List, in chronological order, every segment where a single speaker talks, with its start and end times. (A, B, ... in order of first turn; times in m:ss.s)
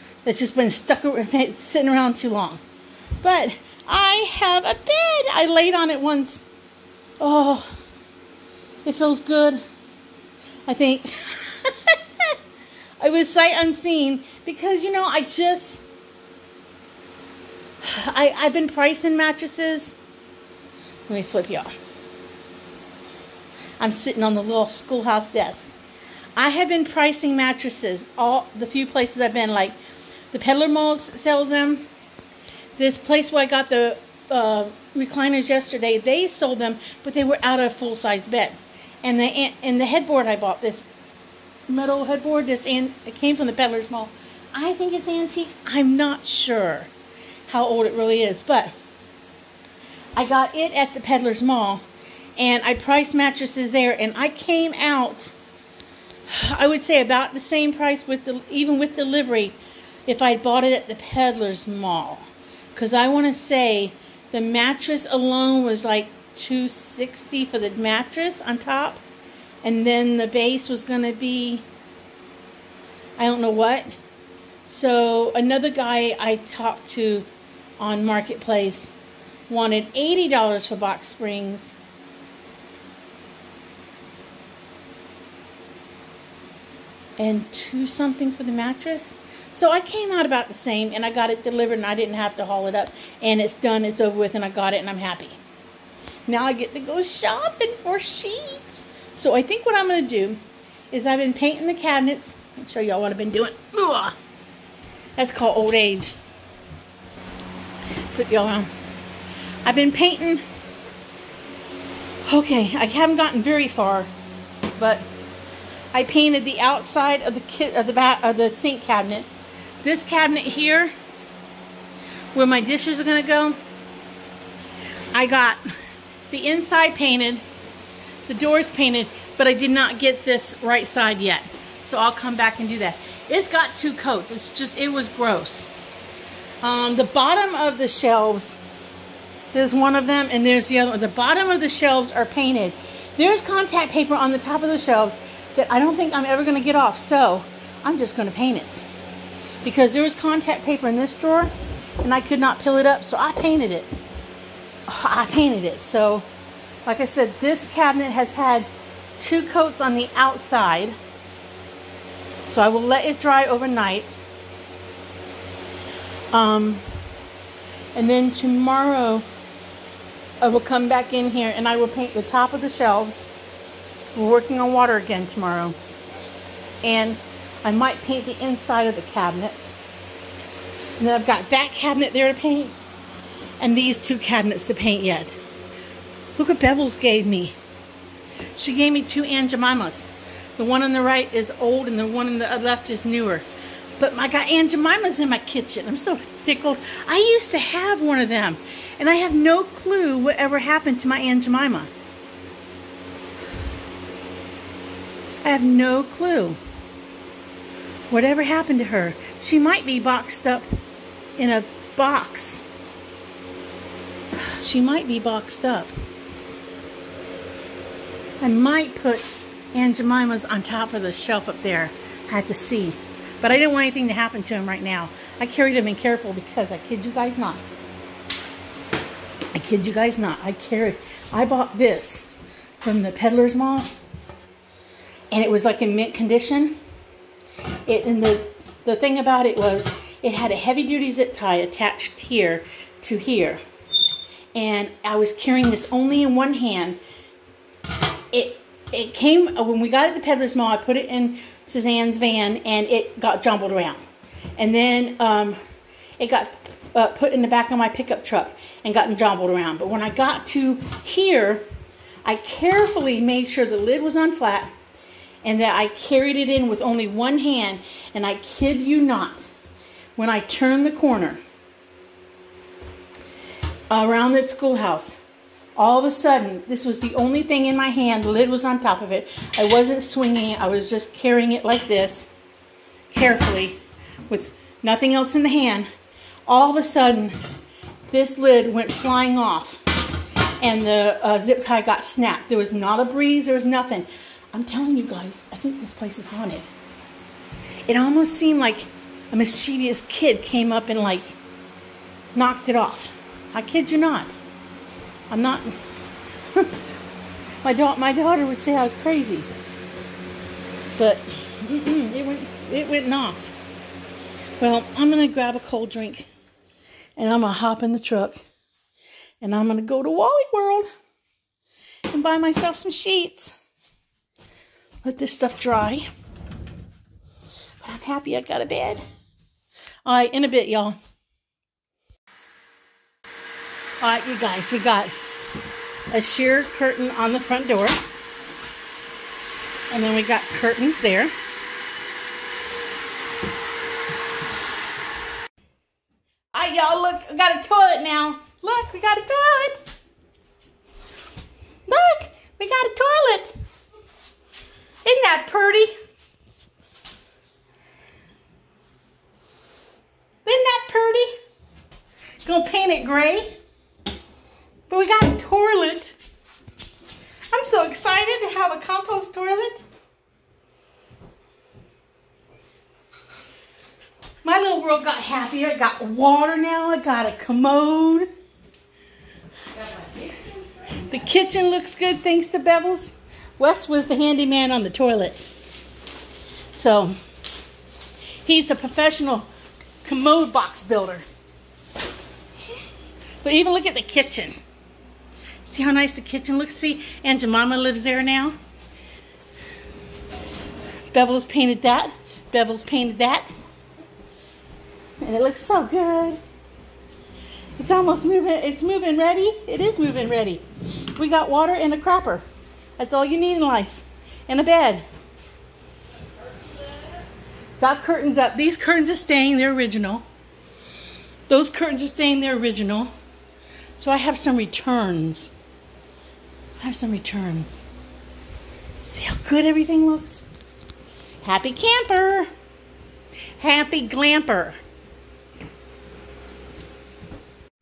0:00.2-0:02.6 A
0:03.2-0:06.4 A
0:07.2-0:07.7 A
0:08.8-0:09.6 A
0:10.6-0:12.4 A
0:13.0-0:15.8 A
0:17.8-0:20.0 A
0:21.1-0:21.7 A
0:23.8-0:25.7 A
0:26.4-0:29.8 A
0:30.3-0:31.9 A
0:32.8-0:40.9 A
0:41.7-0:46.9 A
0:47.5-0:48.7 A
0:50.2-0:51.8 A
0:52.4-0:55.3 A
0:56.3-1:09.0 A
1:09.6-1:11.6 A
1:13.2-1:13.9 A
1:14.7-1:17.3 A
1:17.8-1:18.9 A
1:19.5-1:21.8 A
1:27.2-1:35.4 A
1:36.3-1:40.4 A
1:40.9-1:44.2 A
1:45.2-1:46.2 A
1:48.1-1:48.7 A
1:49.6-1:50.4 A
1:52.3-1:54.1 A
1:54.8-1:55.1 A
1:55.9-1:59.3 A
1:59.8-2:00.9 A
2:02.3-2:03.6 A
2:05.1-2:05.6 A
2:06.3-2:07.4 A
2:08.3-2:15.7 A
2:16.6-2:18.6 A
2:19.5-2:28.9 A
2:29.6-2:33.9 A
2:34.9-2:36.3 A
2:36.8-2:41.0 A
2:42.5-2:44.2 A
2:46.3-2:46.8 A
2:47.9-2:49.2 A
2:50.4-2:53.3 A
2:54.1-2:55.8 A
2:56.8-2:59.8 A
3:01.0-3:02.8 A
3:03.6-3:05.4 A
3:06.4-3:07.6 A
3:08.6-3:13.4 A
3:14.0-3:21.9 A
3:25.4-3:26.6 A
3:28.1-3:30.7 A
3:31.4-3:32.7 A
3:34.4-3:35.9 A
3:38.4-3:47.6 A
3:49.5-3:52.2 A
3:52.8-3:53.9 A
3:55.3-3:56.8 A
3:57.9-4:03.6 A
4:04.5-4:07.0 A
4:08.3-4:14.0 A
4:14.6-4:15.6 A
4:16.2-4:21.6 A
4:22.2-4:24.7 A
4:25.4-4:29.5 A
4:30.2-4:31.4 A
4:33.9-4:35.2 A
4:35.8-4:42.3 A
4:43.1-4:45.9 A
4:46.5-4:47.4 A
4:48.1-4:49.8 A
4:50.6-4:56.7 A
4:57.9-5:01.4 A
5:02.3-5:04.4 A
5:05.3-5:05.8 A
5:07.6-5:09.5 A
5:11.0-5:13.5 A
5:14.6-5:16.3 A
5:17.2-5:18.4 A
5:19.4-5:20.9 A
5:22.1-5:23.5 A
5:25.0-5:26.0 A
5:27.8-5:29.0 A
5:30.0-5:31.0 A
5:34.0-5:35.1 A
5:36.1-5:38.0 A
5:39.9-5:41.3 A
5:46.5-5:49.9 A
5:51.9-5:53.5 A
5:55.0-5:55.9 A
6:00.4-6:01.3 A
6:02.4-6:03.6 A
6:04.9-6:06.1 A
6:07.5-6:09.8 A
6:14.4-6:18.3 A
6:19.8-6:25.5 A
6:26.7-6:27.2 A
6:28.4-6:29.5 A
6:30.0-6:31.2 A
6:33.4-6:34.6 A
6:35.6-6:38.6 A
6:41.1-6:43.5 A
6:45.2-6:46.4 A
6:47.8-6:52.4 A
6:53.0-6:55.0 A
6:57.8-7:00.2 A
7:01.5-7:03.1 A
7:04.0-7:05.5 A
7:06.8-7:07.8 A
7:09.0-7:10.4 A
7:11.4-7:12.5 A
7:13.6-7:14.8 A